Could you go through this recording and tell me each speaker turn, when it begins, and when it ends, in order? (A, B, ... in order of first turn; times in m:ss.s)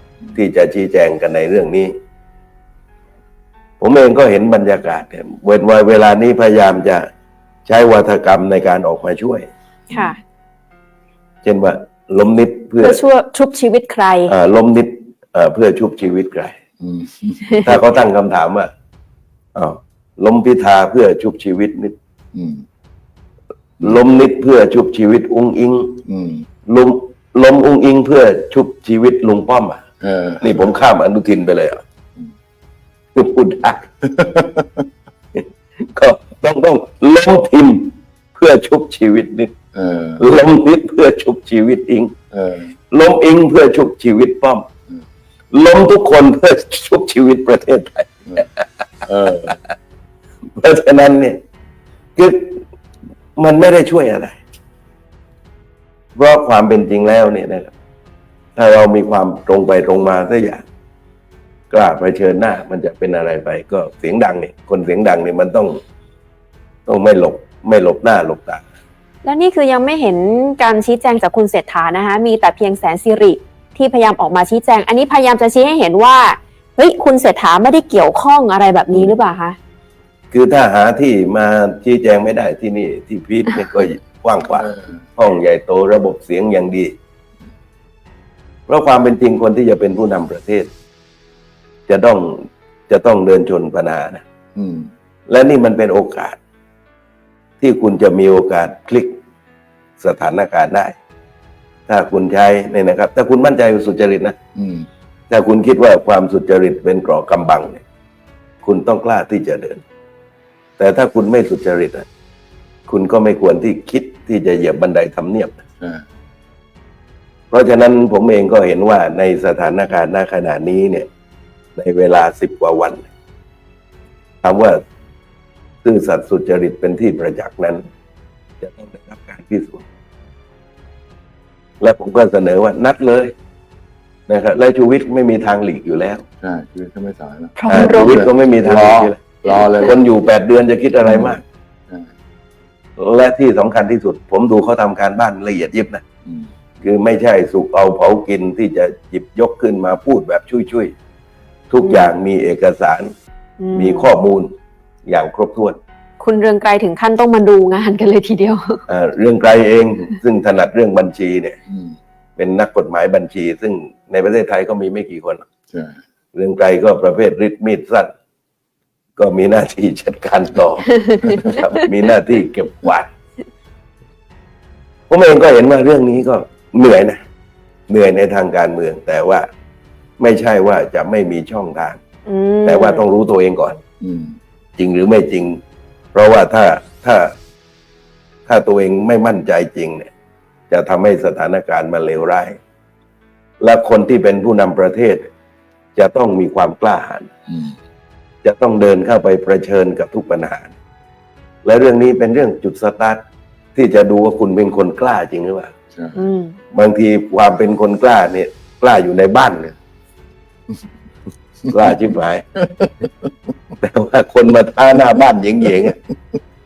0:00.3-0:01.9 A
0:03.8-0:07.0 A
0:07.6-0:09.4 A
0:09.9-0:10.2 B
0:11.4-0:13.0 A
0:12.8-0:14.3 B
0:14.3-0:16.6 A
0:16.8-0:17.7 C
0:17.6-0:18.7 A
0:19.5-0:21.9 A
0:22.3-0:22.6 C
0:23.8-0:26.0 A
0:26.0-0:26.5 C
0:26.6-0:29.8 A
0:30.0-0:30.7 C
0:30.4-0:31.8 A
0:33.1-0:33.9 A
0:34.0-0:34.8 C
0:35.3-0:39.5 A
0:39.7-0:40.3 C
0:40.2-0:42.1 A
0:42.3-0:42.7 C
0:42.9-0:44.7 A
0:45.5-0:48.6 A
0:49.1-0:49.6 C
0:50.6-0:51.4 A
0:52.2-0:52.6 A
0:53.4-0:54.4 A
0:56.2-0:57.7 A
0:58.6-1:00.6 A
1:01.7-1:05.8 A
1:06.9-1:08.6 A
1:09.2-1:19.6 B
1:20.3-1:26.9 A
1:24.6-1:25.0 C
1:28.7-1:30.7 A
1:31.9-1:34.2 A
1:34.5-1:34.9 C
1:35.3-1:36.4 A
1:37.6-1:39.2 A
1:40.0-1:40.9 A
1:41.9-1:44.4 A
1:44.5-1:44.9 C
1:45.3-1:47.8 A
1:48.6-1:49.8 A
1:50.8-1:52.0 A
1:52.9-1:55.6 A
1:57.5-2:01.1 A
2:01.8-2:03.1 A
2:04.4-2:04.8 A
2:05.8-2:07.8 A
2:08.6-2:09.8 A
2:11.8-2:13.3 A
2:14.3-2:16.2 A
2:16.4-2:20.0 C
2:17.6-2:18.2 B
2:17.7-2:21.4 A
2:19.5-2:19.9 B
2:21.0-2:22.1 C
2:23.0-2:26.0 A
2:26.8-2:30.9 A
2:31.7-2:33.1 A
2:31.8-2:32.1 B
2:33.6-2:34.1 B
2:33.7-2:34.5 A
2:35.0-2:35.8 A
2:36.2-2:38.8 B
2:38.9-2:41.6 A
2:41.7-2:42.0 C
2:42.4-2:45.4 A
2:45.7-2:46.0 C
2:46.3-2:48.1 A
2:49.2-2:53.1 A
2:55.1-2:57.2 A
2:57.9-2:59.5 A
3:00.2-3:02.0 A
3:02.2-3:03.0 B
3:02.6-3:03.8 A
3:04.0-3:04.4 C
3:04.8-3:05.6 A
3:06.1-3:07.3 A
3:08.5-3:10.1 A
3:10.7-3:12.6 A
3:13.6-3:15.3 A
3:16.0-3:17.3 A
3:17.5-3:17.7 C
3:18.4-3:20.7 A
3:21.6-3:23.2 A
3:23.7-3:25.7 A
3:25.9-3:26.2 C
3:26.1-3:26.6 B
3:26.7-3:29.8 A
3:31.7-3:31.9 C
3:31.7-3:32.4 A
3:32.6-3:33.3 C
3:33.8-3:36.0 A